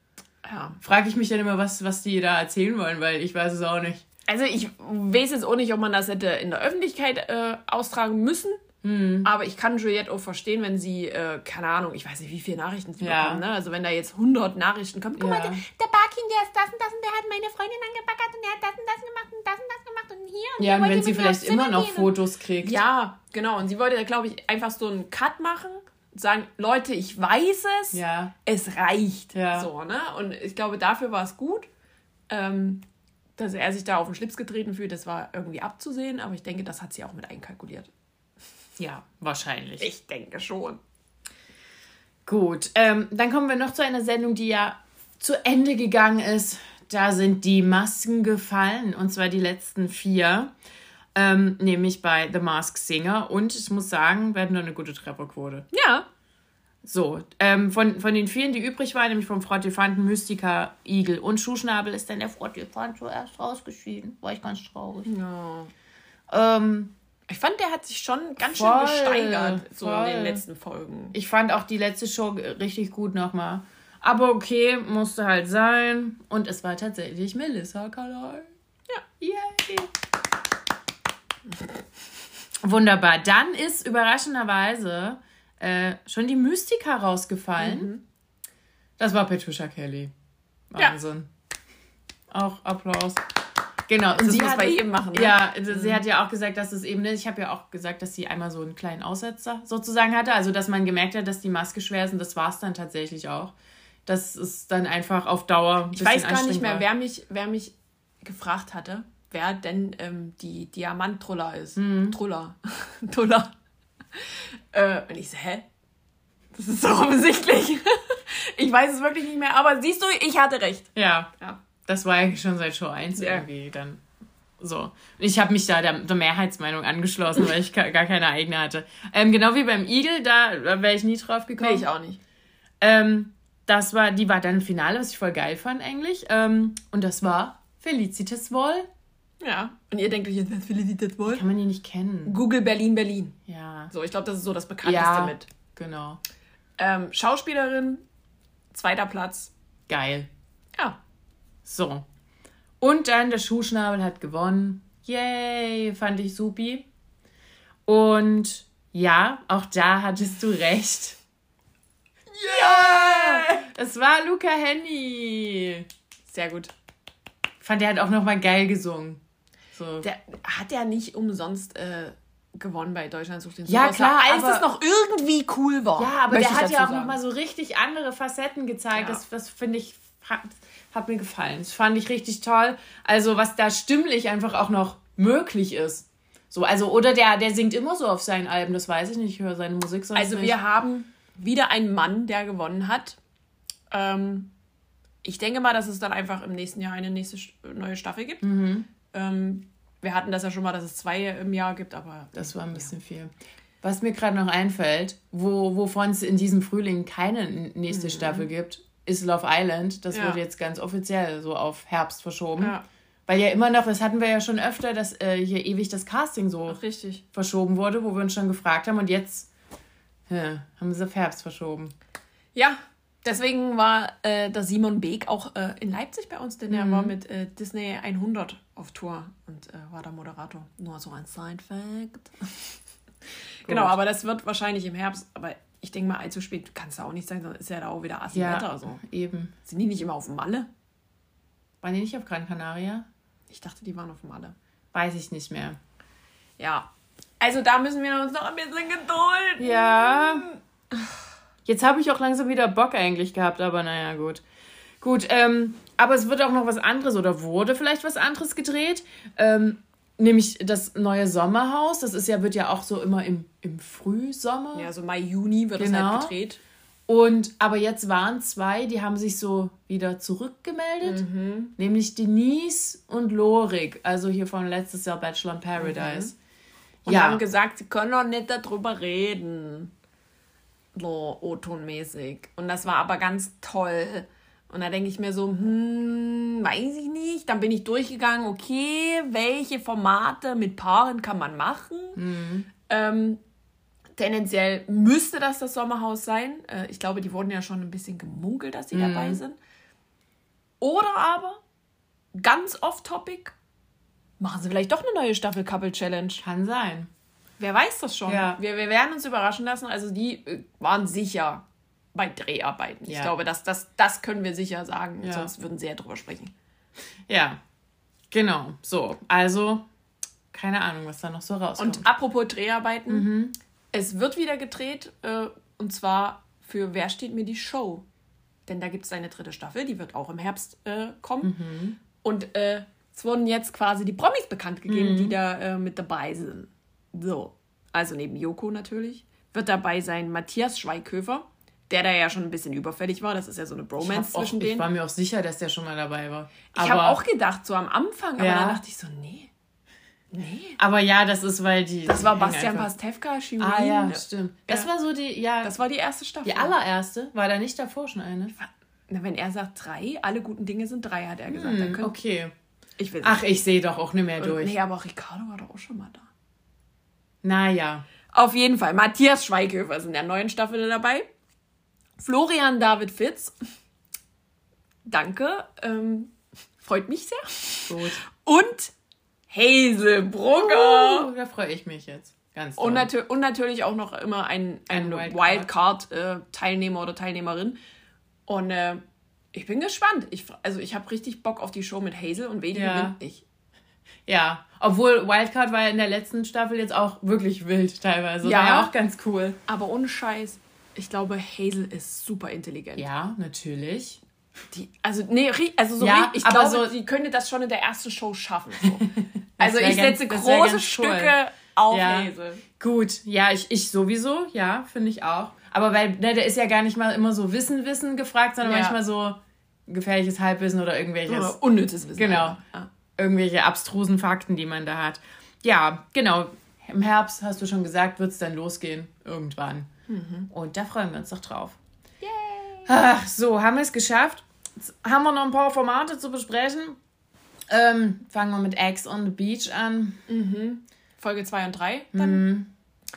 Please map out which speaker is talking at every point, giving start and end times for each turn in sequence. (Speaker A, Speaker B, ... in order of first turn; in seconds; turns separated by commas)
Speaker A: 0.4-0.8, Speaker B: 0.8-4.0, Speaker A: 4.3-8.6, Speaker B: 8.8-9.3, Speaker A: 9.2-31.7, Speaker B: 13.0-13.4, Speaker B: 15.2-15.6, Speaker B: 20.6-22.8, Speaker B: 27.9-28.3, Speaker B: 29.3-29.7, Speaker A: 32.3-32.8, Speaker A: 33.4-37.9, Speaker B: 38.8-39.9, Speaker A: 39.8-40.8, Speaker B: 42.3-50.5, Speaker B: 51.1-55.7, Speaker A: 55.7-56.1, Speaker B: 56.9-65.1, Speaker A: 65.1-65.7, Speaker B: 66.3-66.9, Speaker A: 67.3-71.2, Speaker B: 68.4-70.4, Speaker B: 71.1-78.5, Speaker B: 79.2-79.9, Speaker B: 82.6-87.9, Speaker A: 87.6-88.0, Speaker B: 89.0-90.1, Speaker B: 90.7-91.3, Speaker B: 92.3-93.2, Speaker B: 93.9-103.5, Speaker A: 94.2-96.0, Speaker B: 104.1-106.9, Speaker A: 105.9-113.5, Speaker B: 111.8-112.2, Speaker A: 114.2-115.7, Speaker A: 116.5-120.9, Speaker B: 121.0-121.3, Speaker B: 121.8-124.0, Speaker A: 123.2-123.5, Speaker B: 124.6-131.9, Speaker A: 131.6-132.2, Speaker B: 132.8-138.9, Speaker A: 139.4-141.4, Speaker B: 141.3-142.4, Speaker A: 142.3-143.4, Speaker B: 143.5-143.9, Speaker A: 143.9-145.5, Speaker B: 144.8-146.2, Speaker A: 146.8-148.0, Speaker A: 148.7-149.5, Speaker B: 149.9-150.3, Speaker B: 151.7-152.1, Speaker B: 152.8-156.9, Speaker B: 157.9-161.2, Speaker A: 162.3-163.7, Speaker B: 162.5-165.9, Speaker A: 166.3-166.7, Speaker B: 167.6-169.2, Speaker B: 169.8-170.1, Speaker A: 170.0-177.2, Speaker B: 173.7-174.7, Speaker B: 176.0-190.6, Speaker A: 178.9-179.2, Speaker A: 190.1-193.2, Speaker A: 193.9-194.5, Speaker A: 195.2-198.5, Speaker B: 198.4-198.9, Speaker A: 199.1-202.9, Speaker B: 202.3-203.3, Speaker B: 203.8-212.8, Speaker A: 207.9-208.5, Speaker A: 210.1-210.4, Speaker A: 212.6-212.8, Speaker B: 213.3-216.8, Speaker A: 216.7-217.2, Speaker B: 217.3-219.5, Speaker B: 220.3-221.9, Speaker A: 222.6-232.8, Speaker B: 226.7-227.2, Speaker A: 233.6-239.0, Speaker B: 233.7-234.0, Speaker B: 238.3-239.5, Speaker A: 239.7-240.7, Speaker B: 241.8-243.1, Speaker A: 243.5-244.6, Speaker B: 244.9-245.8, Speaker A: 246.6-246.9, Speaker A: 247.4-250.6, Speaker B: 249.6-250.5, Speaker B: 251.7-254.4, Speaker B: 255.0-264.9, Speaker A: 264.7-266.6, Speaker B: 265.8-266.3, Speaker B: 267.1-271.2, Speaker A: 271.0-271.7, Speaker B: 271.8-276.3, Speaker A: 275.8-276.3, Speaker B: 277.1-277.4, Speaker A: 277.1-279.9, Speaker A: 280.9-292.2, Speaker B: 292.2-292.7, Speaker A: 292.9-293.4, Speaker A: 294.2-299.6, Speaker B: 298.9-299.4, Speaker A: 300.8-301.6, Speaker A: 302.4-303.6, Speaker A: 304.4-306.4, Speaker B: 306.4-307.1, Speaker A: 307.6-316.5, Speaker B: 308.3-308.6, Speaker B: 313.1-313.3, Speaker B: 315.2-315.5, Speaker B: 317.3-317.6, Speaker B: 318.3-319.9, Speaker B: 320.5-322.1, Speaker A: 321.8-323.3, Speaker B: 323.1-323.6, Speaker A: 323.9-328.1, Speaker A: 328.7-331.5, Speaker B: 331.4-332.0, Speaker A: 332.2-344.9, Speaker B: 334.9-335.4, Speaker B: 344.0-347.2, Speaker A: 346.7-349.5, Speaker B: 348.4-348.8, Speaker A: 350.3-350.8, Speaker B: 350.8-352.9, Speaker A: 352.1-354.9, Speaker B: 353.6-355.8, Speaker A: 355.6-356.7, Speaker B: 356.4-358.5, Speaker A: 358.6-362.1, Speaker B: 361.5-362.5, Speaker A: 363.0-363.4, Speaker B: 363.2-364.7, Speaker A: 364.4-366.3, Speaker B: 367.4-368.1, Speaker A: 368.3-371.3, Speaker A: 372.2-373.6, Speaker A: 375.1-378.9, Speaker B: 377.9-378.2, Speaker A: 379.5-381.3, Speaker B: 380.6-383.1, Speaker A: 382.8-387.8, Speaker B: 384.9-385.7, Speaker A: 388.5-389.0, Speaker A: 389.5-393.4, Speaker B: 392.7-393.2, Speaker B: 394.3-399.6, Speaker A: 398.4-398.9, Speaker A: 399.7-403.1, Speaker B: 403.0-404.2, Speaker A: 404.7-412.6, Speaker B: 406.0-406.9, Speaker B: 409.0-411.4, Speaker B: 411.9-421.6, Speaker A: 418.6-419.0, Speaker A: 421.3-422.9, Speaker B: 422.2-422.6, Speaker B: 423.2-429.9, Speaker A: 430.1-430.5, Speaker B: 430.5-431.8, Speaker A: 432.2-432.9, Speaker B: 432.9-437.0, Speaker B: 437.7-440.2, Speaker A: 440.3-442.5, Speaker B: 442.1-442.7